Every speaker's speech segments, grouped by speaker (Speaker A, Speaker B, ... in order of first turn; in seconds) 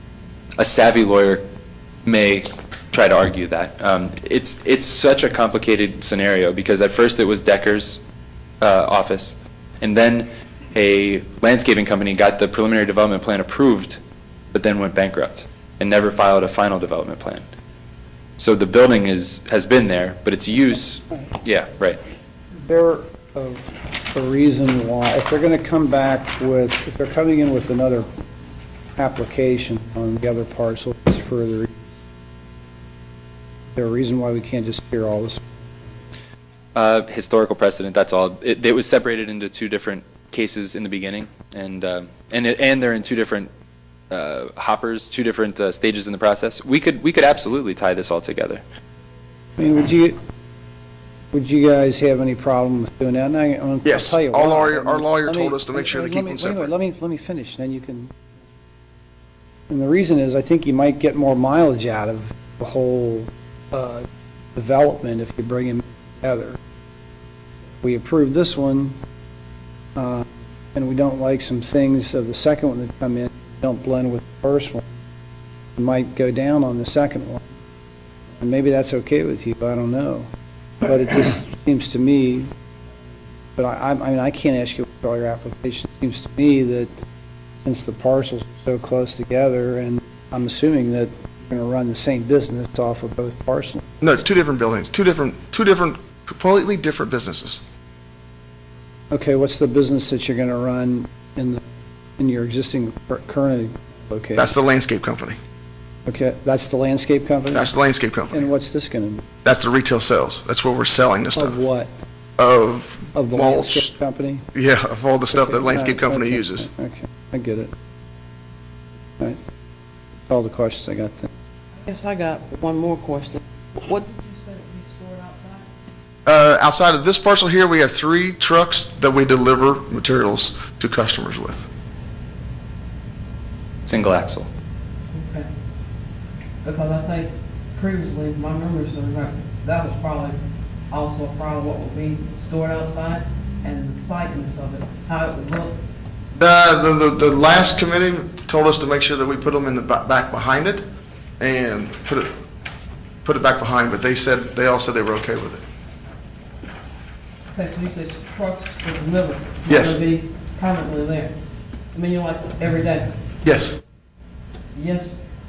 Speaker A: 0.6-1.4, 2.0-8.0, 8.6-14.0, 14.5-17.5, 18.4-22.0, 36.8-43.5, 44.1-48.6, 133.8-134.5
Speaker B: 22.6-28.1, 29.0-31.9, 33.8-35.7, 49.6-50.2, 51.3-58.2, 59.7-66.6, 67.8-69.0, 70.0-74.9, 75.8-77.5, 78.4-80.3, 80.8-82.5, 83.6-86.9, 87.6-93.9, 99.1-101.6, 102.2-104.5, 106.1-107.7, 108.3-109.4, 111.4-111.9, 113.1-114.5, 115.3-117.7, 120.3-121.3
Speaker C: 53.8-56.7, 94.0-97.6, 104.4-105.4, 107.5-108.5, 109.4-111.6, 112.4-113.9, 114.5-116.7, 126.3-131.7, 146.3-150.9, 151.4-152.4, 153.2-155.6, 159.7-160.0, 163.4-163.8
Speaker D: 121.8-125.7, 135.1-135.5, 136.6-140.4, 140.9-145.8, 157.5-161.3, 161.9-163.2, 164.7-165.2